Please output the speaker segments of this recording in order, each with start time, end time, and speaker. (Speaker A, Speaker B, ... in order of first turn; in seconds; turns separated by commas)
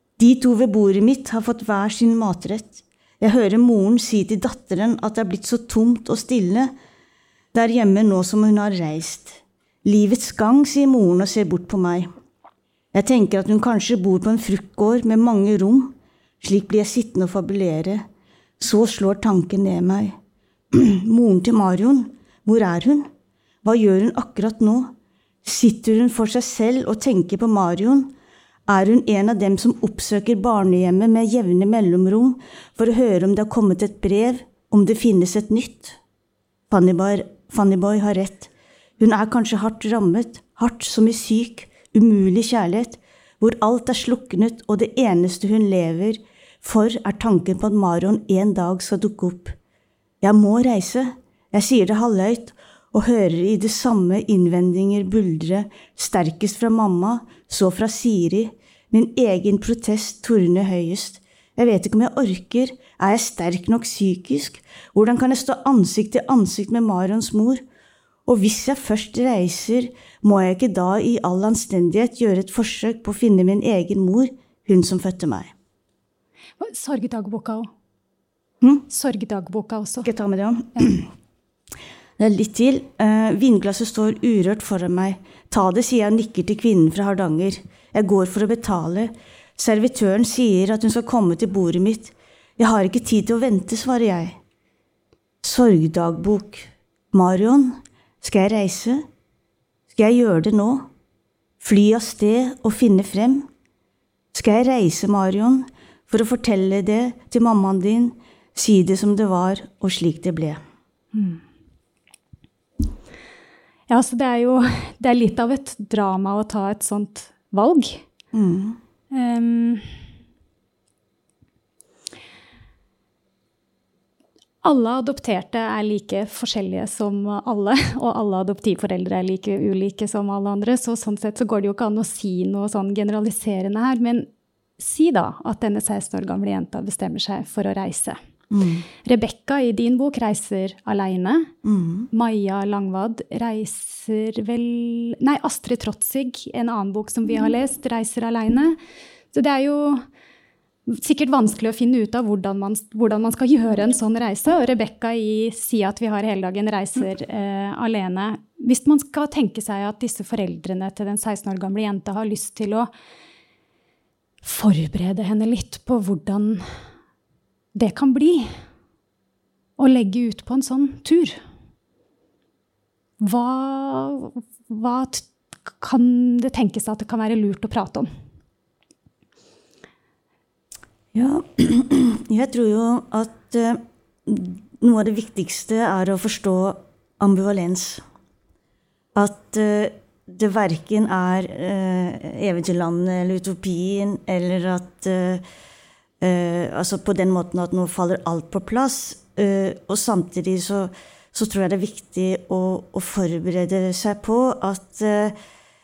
Speaker A: 0.2-6.7, Speaker A: 7.5-12.1, Speaker A: 12.9-18.1, Speaker A: 18.6-20.1, Speaker A: 20.7-23.1, Speaker A: 23.6-28.1, Speaker A: 28.7-36.0, Speaker A: 36.7-49.5, Speaker A: 50.2-67.6, Speaker A: 68.2-75.5, Speaker B: 76.6-77.7, Speaker B: 78.9-80.1, Speaker A: 80.0-81.1, Speaker A: 82.2-94.4, Speaker A: 95.4-99.0, Speaker A: 99.9-100.9, Speaker A: 101.6-103.5, Speaker A: 104.3-110.6, Speaker B: 111.1-111.4, Speaker B: 113.9-118.0, Speaker A: 118.3-118.8, Speaker B: 119.1-119.9, Speaker B: 124.6-138.2, Speaker A: 138.5-138.8, Speaker B: 139.1-141.5, Speaker A: 141.6-142.1, Speaker B: 142.1-148.8, Speaker B: 149.3-150.0, Speaker B: 150.9-162.9, Speaker B: 164.4-166.6, Speaker B: 167.7-168.5, Speaker B: 169.8-171.4, Speaker B: 173.2-178.1, Speaker A: 181.1-188.0, Speaker A: 189.1-195.4, Speaker A: 196.2-205.3